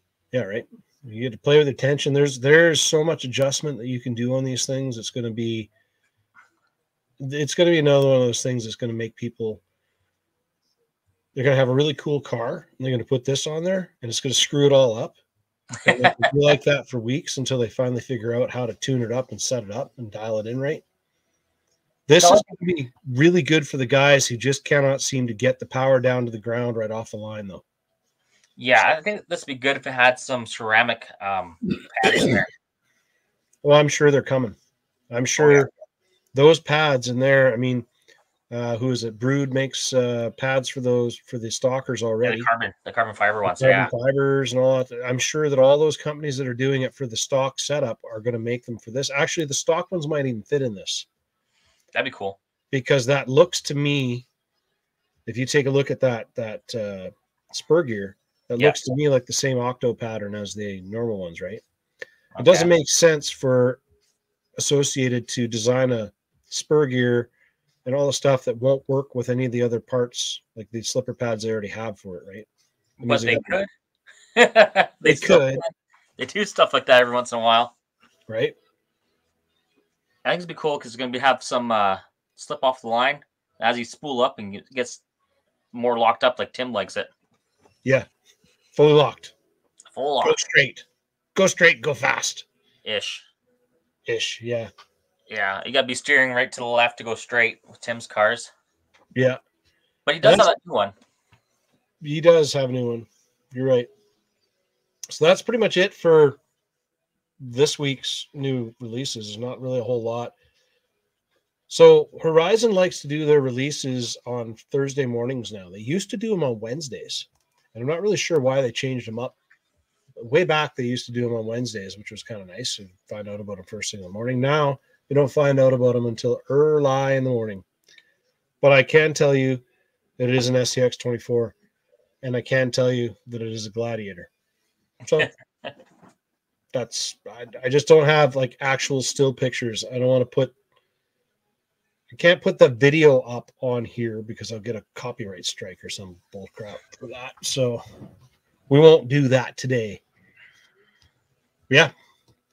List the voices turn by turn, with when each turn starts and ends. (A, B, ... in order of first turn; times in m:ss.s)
0:00.3-0:05.7 A
0:07.2-0:09.6 A
0:11.3-0:15.2 A
0:15.8-0:20.8 A
0:22.1-0:27.6 A
0:22.2-0:22.5 B
0:28.6-0:32.5 B
0:33.6-0:34.6 A
0:35.1-0:35.7 A
0:35.4-0:35.7 B
0:36.3-0:37.8 A
0:38.5-0:42.5 A
0:42.2-0:43.9 B
0:43.5-0:51.1 A
0:51.9-0:52.4 B
0:52.7-0:54.2 A
0:55.2-1:01.6 A
1:02.4-1:02.7 B
1:02.4-1:03.8 A
1:04.6-1:07.3 A
1:07.8-1:12.5 A
1:13.0-1:13.6 A
1:13.0-1:13.7 B
1:14.4-1:17.7 B
1:15.0-1:15.6 A
1:18.3-1:18.5 A
1:20.2-1:25.0 B
1:25.7-1:27.1 B
1:28.7-1:29.3 A
1:29.9-1:30.4 B
1:30.2-1:32.4 A
1:32.8-1:33.2 B
1:34.0-1:34.7 A
1:35.3-1:38.5 B
1:40.0-1:40.9 B
1:40.2-1:40.5 A
1:42.0-1:43.9 A
1:45.1-1:46.4 A
1:47.4-1:50.3 A
1:51.7-1:59.4 A
2:00.2-2:07.6 A
2:08.6-2:09.6 A
2:10.2-2:11.5 A
2:12.2-2:14.3 A
2:15.0-2:15.3 A
2:15.2-2:15.7 B
2:16.7-2:20.5 A
2:22.1-2:27.8 A
2:28.7-2:30.0 A